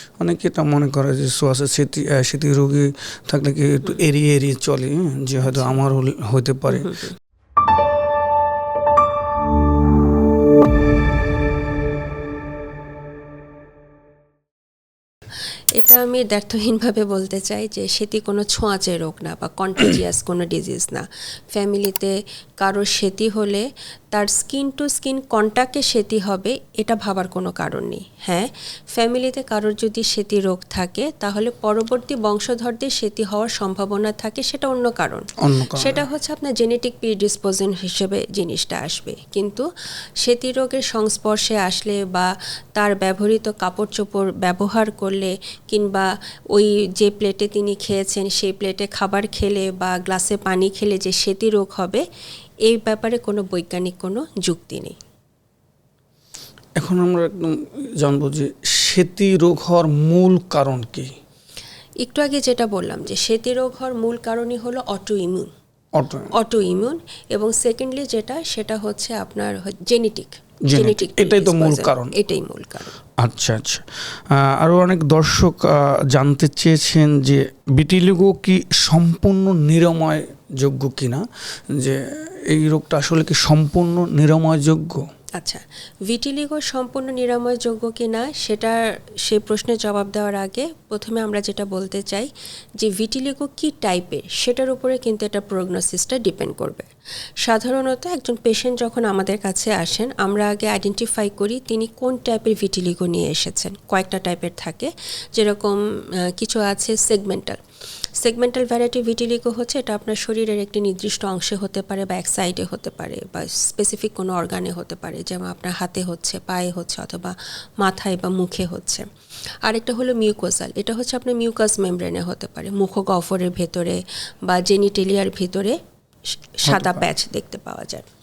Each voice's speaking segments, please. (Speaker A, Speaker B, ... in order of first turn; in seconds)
Speaker A: 0.2-7.0, 35.4-36.0, 56.8-61.1, 66.0-66.3, 70.6-72.1, 73.2-81.2, 81.7-85.0, 126.7-127.0
Speaker B: 5.5-5.7, 6.7-7.1, 15.8-39.7, 40.2-52.0, 52.6-55.0, 62.0-65.5, 66.3-72.9, 85.4-96.9, 97.4-107.6, 108.2-119.0, 119.6-125.8, 126.5-128.1